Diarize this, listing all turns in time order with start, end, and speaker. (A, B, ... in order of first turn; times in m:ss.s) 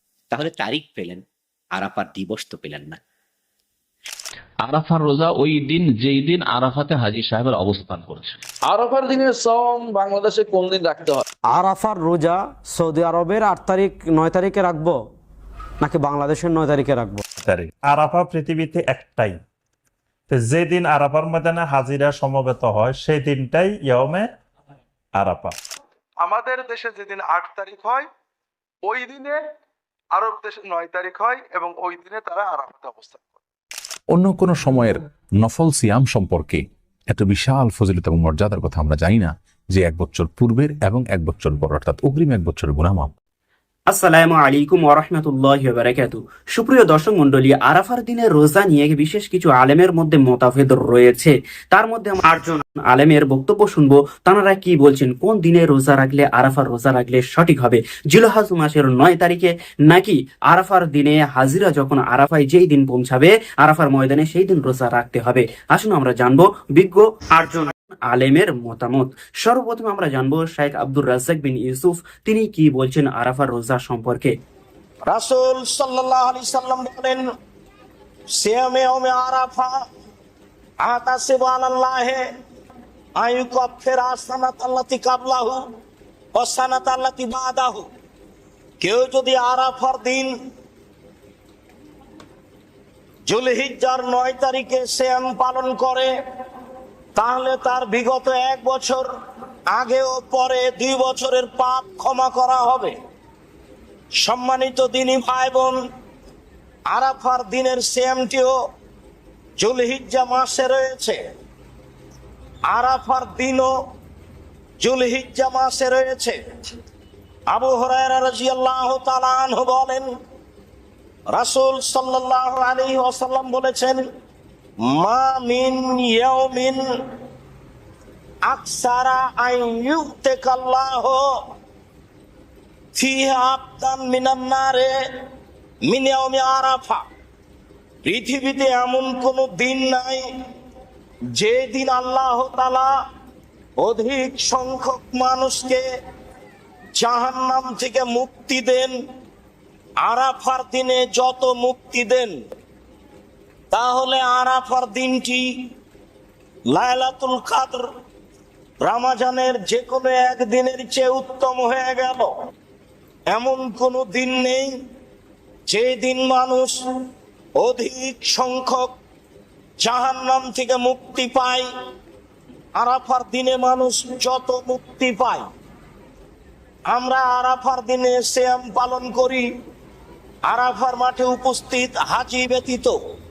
0:00.3-0:01.2 A
0:01.8-0:03.0 A
0:04.6-0:08.4 B
0:08.7-0:11.2 C
0:11.5-0:15.0 D
0:15.8-0:17.2 D
0:17.4-0:19.4 E
0:20.3-0:24.2 E
0:25.2-0:25.6 E
0:26.2-0:28.1 F
0:28.8-0:29.4 F
0:30.1-0:33.4 F
0:34.1-0:43.1 G
0:43.9-1:14.3 H
1:15.1-1:17.2 I
1:18.4-1:19.8 I
1:20.8-1:22.2 I
1:23.2-1:25.6 I
1:26.4-1:27.9 I
1:28.8-1:30.3 I
1:33.3-1:36.1 I
1:37.2-1:39.0 I
1:39.7-1:42.9 I
1:44.2-1:45.8 I
1:46.9-1:48.5 I
1:49.6-1:51.2 I
1:52.7-1:53.7 I
1:54.8-1:56.4 I
1:57.5-2:00.1 I
2:01.3-2:04.0 I
2:04.9-2:06.8 I
2:08.4-2:11.2 I
2:13.0-2:14.9 I
2:15.9-2:17.0 I
2:18.0-2:20.2 I
2:21.4-2:22.9 I
2:23.8-2:25.8 I
2:27.0-2:28.9 I
2:30.0-2:32.3 I
2:33.7-2:35.4 I
2:36.7-2:37.8 I
2:38.8-2:42.3 I
2:43.3-2:44.7 I
2:45.7-2:46.7 I
2:47.6-2:48.9 I
2:49.8-2:51.6 I
2:52.8-2:55.5 I
2:56.9-2:59.4 I
3:00.5-3:03.0 I